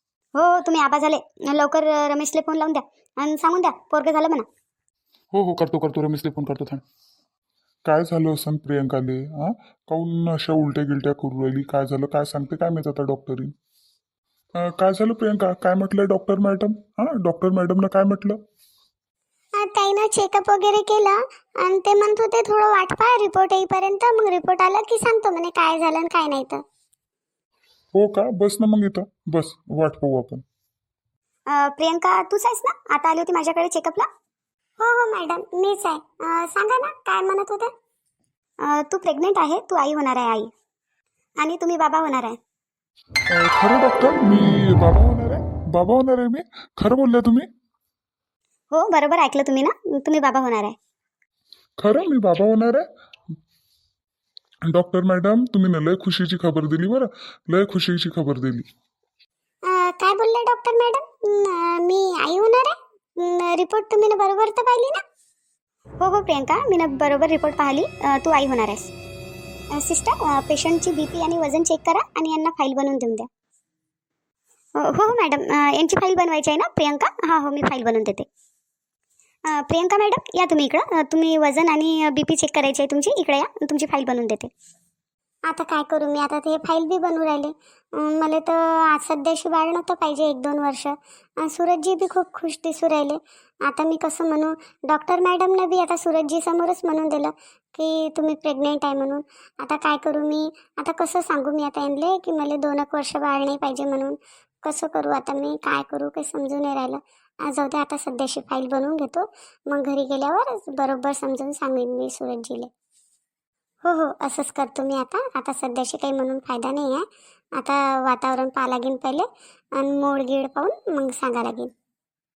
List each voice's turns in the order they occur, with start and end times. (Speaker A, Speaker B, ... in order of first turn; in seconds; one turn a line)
Speaker A: 0.3-4.5
Speaker B: 5.3-6.8
Speaker B: 7.8-13.5
Speaker B: 14.6-18.4
Speaker C: 19.6-26.6
Speaker B: 27.9-30.4
Speaker A: 31.5-34.1
Speaker C: 34.8-37.7
Speaker A: 38.6-40.5
Speaker A: 41.4-42.4
Speaker B: 43.3-47.5
Speaker A: 48.7-50.8
Speaker B: 51.8-52.9
Speaker B: 54.6-58.6
Speaker C: 59.6-65.0
Speaker A: 66.0-68.9
Speaker A: 69.7-73.3
Speaker A: 74.8-78.3
Speaker A: 79.5-84.5
Speaker C: 85.5-112.7
Speaker C: 113.8-117.0
Speaker C: 117.6-119.3
Speaker C: 119.8-121.7